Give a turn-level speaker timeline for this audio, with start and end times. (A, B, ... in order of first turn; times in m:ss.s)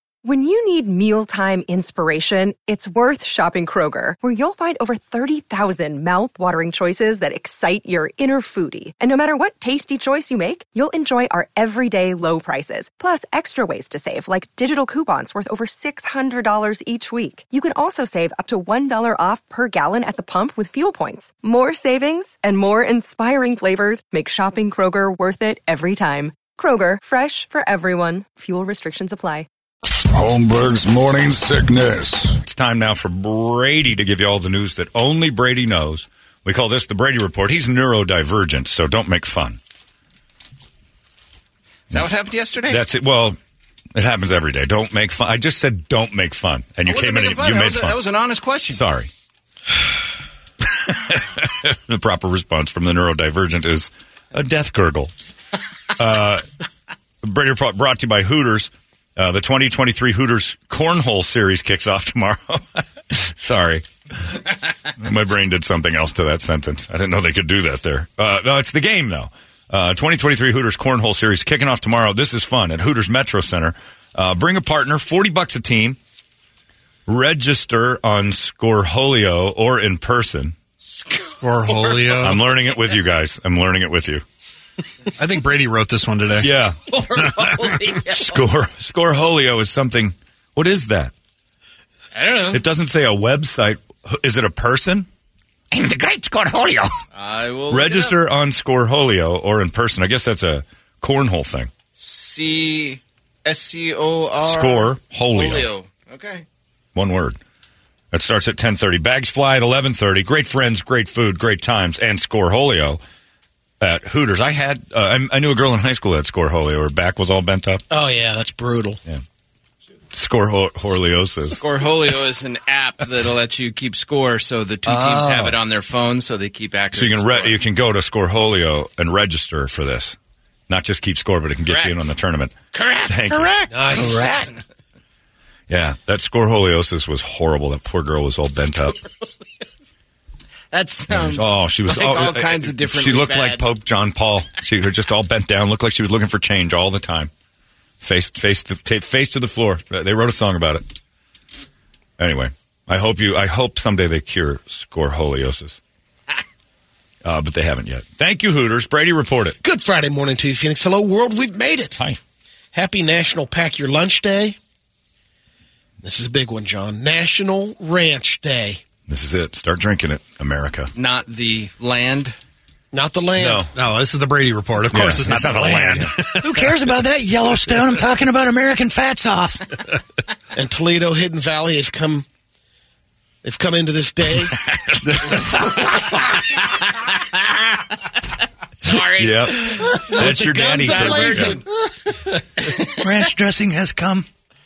0:00.2-0:29.5 A
0:30.1-0:32.4 B
0:32.4-0:39.6 C
0:41.9-0:42.8 D
0:42.7-0:43.4 C
0:43.9-0:48.0 C
0:46.8-0:48.8 D
0:48.7-0:49.1 C
0:50.6-0:55.1 C
0:55.9-0:56.4 C
0:57.2-1:16.0 C
1:17.0-1:20.5 C
1:21.4-1:22.5 E
1:22.2-1:24.2 C
1:25.2-1:26.5 E
1:26.4-1:31.1 C
1:26.9-1:28.2 D
1:32.1-1:32.6 D
1:32.5-1:35.1 C
1:35.7-1:36.4 F
1:36.4-1:36.7 C
1:37.1-1:38.2 D
1:37.7-1:41.7 C
1:42.0-1:46.4 D
1:44.4-1:45.7 C
1:46.9-1:47.4 C
1:48.1-1:53.0 C
1:53.8-1:57.8 C
1:57.9-1:59.0 G
2:00.1-2:01.6 C
2:01.6-2:07.6 D
2:04.8-2:05.6 C
2:06.9-2:10.2 C
2:10.7-2:12.6 C
2:11.6-2:12.1 D
2:12.7-2:14.4 D
2:13.1-2:14.4 C
2:13.7-2:14.4 G
2:15.7-2:19.0 C
2:20.7-2:23.6 D
2:21.1-2:27.3 C
2:28.0-2:30.8 C
2:32.2-2:35.8 C
2:37.2-2:39.6 C
2:39.6-2:42.0 G
2:42.7-2:44.6 G
2:46.0-2:48.8 G
2:49.1-2:50.9 C
2:51.0-2:52.4 D
2:52.9-2:53.7 G
2:53.4-2:53.7 C
2:53.7-2:56.8 E
2:54.9-2:56.4 C
2:56.3-2:59.6 F
3:00.5-3:02.2 G
3:03.4-3:04.5 G
3:04.6-3:05.8 C
3:05.0-3:05.4 E
3:08.8-3:11.6 D
3:09.0-3:11.6 C
3:10.0-3:11.6 G
3:12.6-3:12.8 D
3:13.0-3:14.2 F